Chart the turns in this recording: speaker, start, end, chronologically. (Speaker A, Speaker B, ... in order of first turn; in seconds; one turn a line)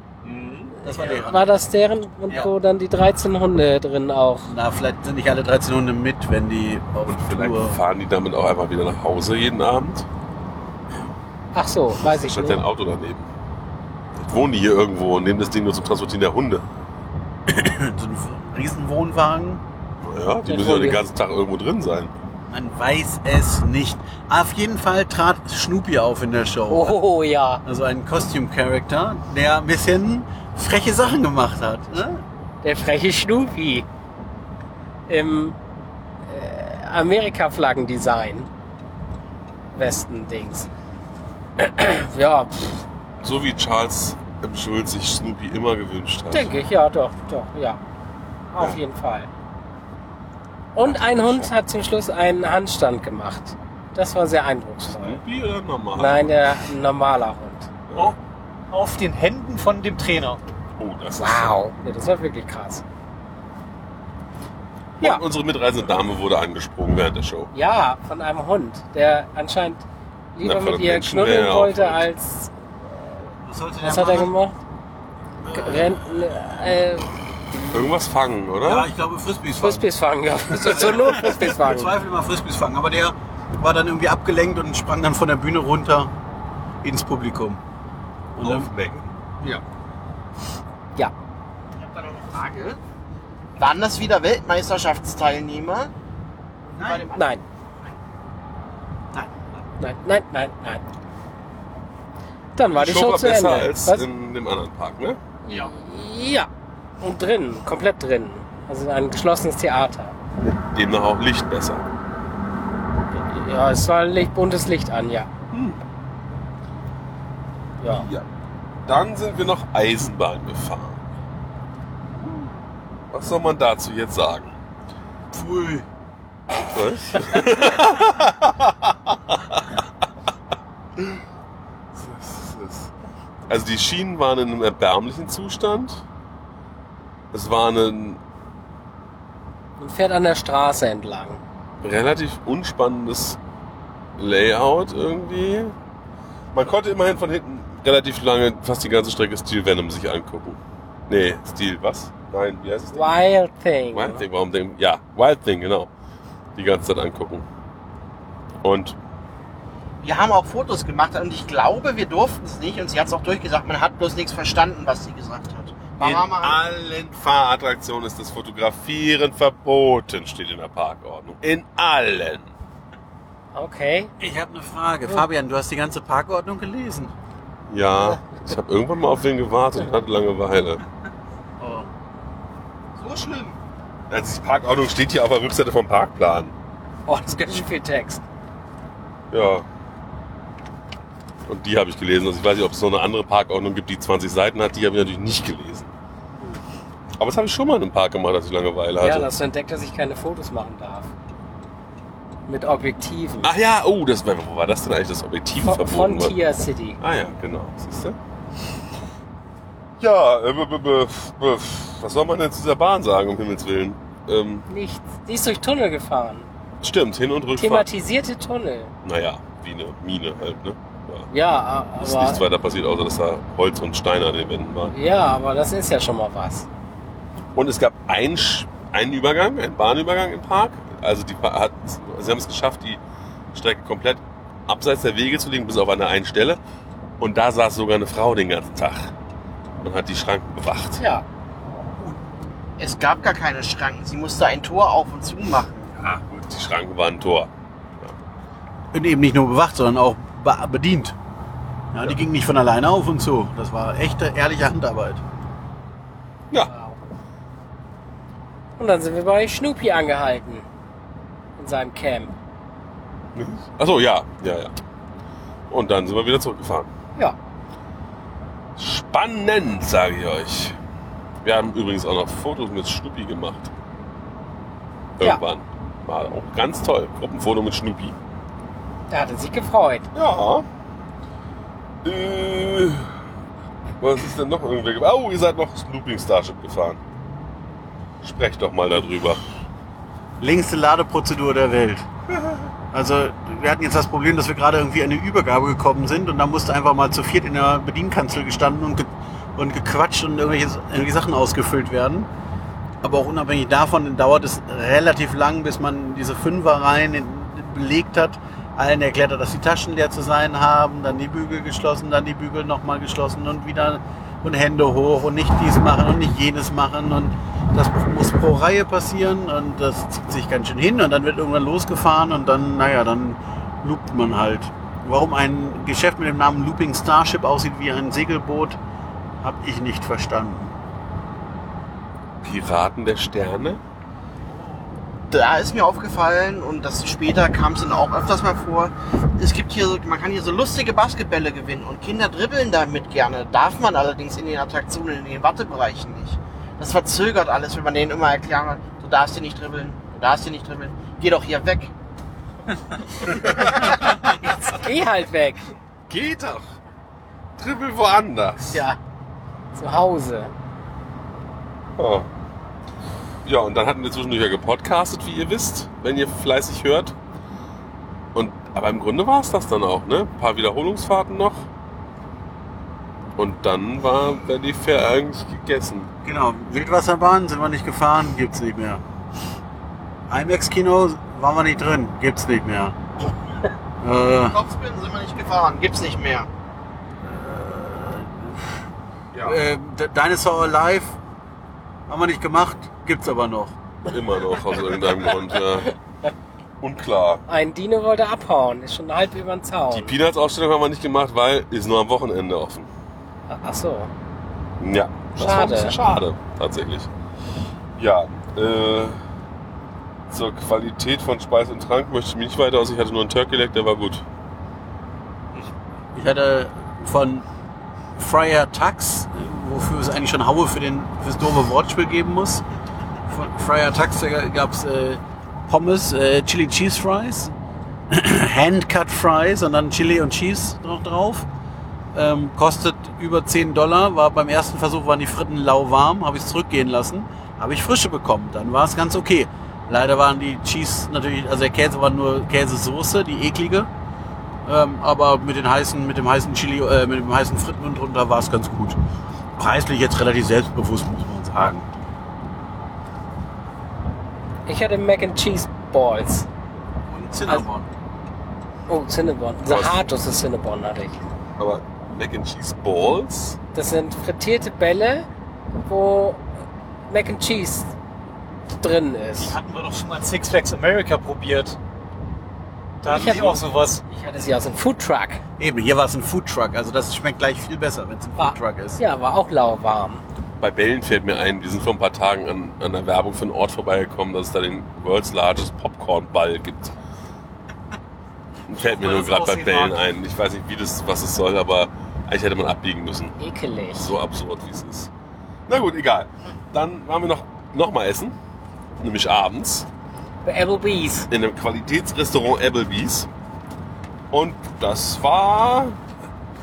Speaker A: 0.2-0.7
Speaker B: 0.8-1.5
Speaker C: 0.8-4.5
Speaker B: 4.5-7.8
Speaker A: 7.0-10.1
Speaker C: 11.5-12.6
Speaker A: 12.0-13.3
Speaker A: 14.2-16.6
Speaker B: 17.5-19.6
Speaker A: 20.0-22.1
Speaker C: 20.4-21.0
Speaker B: 22.5-27.0
Speaker C: 26.7-27.6
Speaker B: 27.6-32.2
Speaker C: 32.6-33.9
Speaker C: 35.1-35.5
Speaker C: 36.3-38.5
Speaker C: 39.7-40.7
Speaker C: 41.6-42.8
Speaker A: 43.2-46.5
Speaker C: 46.3-47.8
Speaker C: 48.5-49.3
Speaker C: 50.7-55.2
Speaker A: 50.8-51.5
Speaker A: 54.9-56.6
Speaker C: 55.9-57.7
Speaker A: 57.9-58.1
Speaker D: 58.7-60.4
Speaker A: 60.8-61.6
Speaker C: 61.1-62.8
Speaker A: 65.0-67.5
Speaker C: 67.5-69.8
Speaker C: 70.3-72.5
Speaker A: 70.4-72.0
Speaker B: 73.5-74.3
Speaker C: 73.8-74.5
Speaker B: 75.4-76.0
Speaker C: 75.5-77.7
Speaker A: 77.7-78.9
Speaker B: 78.6-79.9
Speaker C: 79.6-81.9
Speaker B: 80.5-86.1
Speaker B: 86.8-87.6
Speaker B: 88.3-88.7
Speaker A: 88.4-89.6
Speaker E: 91.8-92.8
Speaker E: 93.6-95.9
Speaker E: 96.7-97.3
Speaker B: 96.8-97.1
Speaker C: 97.1-97.4
Speaker C: 99.8-100.8
Speaker C: 102.5-104.0
Speaker A: 102.6-105.2
Speaker C: 105.4-106.5
Speaker C: 107.0-110.2
Speaker A: 110.6-111.8
Speaker C: 113.1-115.3
Speaker A: 115.5-115.8
Speaker C: 117.8-118.0
Speaker A: 117.9-118.2
Speaker A: 118.8-121.0
Speaker A: 123.1-124.5
Speaker B: 125.3-125.8
Speaker A: 126.7-129.8
Speaker A: 131.9-132.9
Speaker A: 133.5-136.0
Speaker A: 137.3-138.2
Speaker C: 139.8-141.4
Speaker A: 141.8-143.4
Speaker A: 144.2-145.8
Speaker A: 146.5-153.2
Speaker C: 152.9-154.2
Speaker A: 153.9-155.9
Speaker A: 156.6-157.4
Speaker A: 158.6-159.0
Speaker E: 160.0-166.6
Speaker A: 166.0-172.5
Speaker C: 173.5-174.1
Speaker B: 174.2-177.1
Speaker A: 177.7-180.8
Speaker B: 181.6-181.9
Speaker B: 183.0-183.6
Speaker A: 184.1-186.5
Speaker C: 187.1-188.2
Speaker A: 189.3-189.7
Speaker A: 191.5-195.9
Speaker A: 197.2-199.3
Speaker C: 199.0-201.1
Speaker C: 202.5-203.5
Speaker A: 203.4-206.4
Speaker C: 205.6-207.0
Speaker A: 207.0-208.2
Speaker A: 210.0-214.7
Speaker C: 214.7-216.5
Speaker A: 216.8-217.9
Speaker C: 217.6-218.9
Speaker A: 219.0-221.3
Speaker C: 221.3-222.4
Speaker A: 222.0-225.0
Speaker C: 224.9-226.7
Speaker A: 227.5-233.0
Speaker A: 233.5-236.6
Speaker A: 237.2-239.1
Speaker A: 239.8-241.0
Speaker C: 241.0-241.2
Speaker E: 242.8-245.9
Speaker A: 245.9-248.1
Speaker B: 248.9-251.2
Speaker B: 251.9-255.2
Speaker C: 256.7-257.0
Speaker C: 258.8-260.6
Speaker C: 261.6-262.4
Speaker A: 263.3-264.7
Speaker A: 265.7-266.9
Speaker A: 268.8-270.8
Speaker A: 271.4-273.7
Speaker A: 275.2-278.1
Speaker C: 279.1-280.1
Speaker A: 280.1-280.6
Speaker A: 282.0-283.1
Speaker A: 284.0-287.0
Speaker A: 288.2-289.4
Speaker B: 290.4-292.1
Speaker B: 292.9-302.3
Speaker B: 303.0-328.8
Speaker B: 329.4-330.7
Speaker A: 332.4-333.8
Speaker E: 335.3-351.9
Speaker A: 353.2-354.7
Speaker C: 353.6-355.6
Speaker A: 356.1-356.8
Speaker A: 357.6-358.8
Speaker C: 358.7-359.0
Speaker C: 359.7-360.5
Speaker A: 362.0-362.3
Speaker A: 363.4-367.1
Speaker A: 368.3-371.7
Speaker A: 373.4-376.1
Speaker B: 376.2-379.0
Speaker B: 380.3-383.0
Speaker B: 384.0-384.6
Speaker E: 384.5-386.5
Speaker B: 387.2-388.7
Speaker B: 389.4-391.2
Speaker B: 392.1-393.8
Speaker A: 394.1-395.9
Speaker A: 396.8-397.4
Speaker C: 397.5-400.1
Speaker A: 399.9-402.9
Speaker C: 403.5-404.1
Speaker A: 404.8-407.1
Speaker C: 405.4-406.0
Speaker A: 408.0-409.2
Speaker A: 410.3-414.2
Speaker B: 416.1-417.4
Speaker B: 418.2-422.6
Speaker B: 423.3-427.5
Speaker B: 428.1-431.5
Speaker B: 432.1-443.9
Speaker B: 444.6-449.0
Speaker B: 449.6-451.9
Speaker C: 454.6-456.5
Speaker B: 457.1-457.9
Speaker C: 458.9-461.2
Speaker A: 459.6-460.0
Speaker A: 461.6-463.6
Speaker C: 463.7-465.3
Speaker C: 465.9-466.5
Speaker C: 467.1-467.9
Speaker C: 468.8-469.6
Speaker D: 469.4-471.8
Speaker D: 473.0-474.1
Speaker C: 473.0-475.4
Speaker B: 475.6-479.0
Speaker C: 478.4-480.2
Speaker A: 480.6-486.9
Speaker A: 488.7-493.4
Speaker D: 489.0-489.9
Speaker C: 493.4-494.1
Speaker A: 493.9-495.1
Speaker A: 495.7-498.4
Speaker A: 499.0-499.9
Speaker C: 500.4-501.3
Speaker A: 501.3-503.3
Speaker A: 504.3-506.0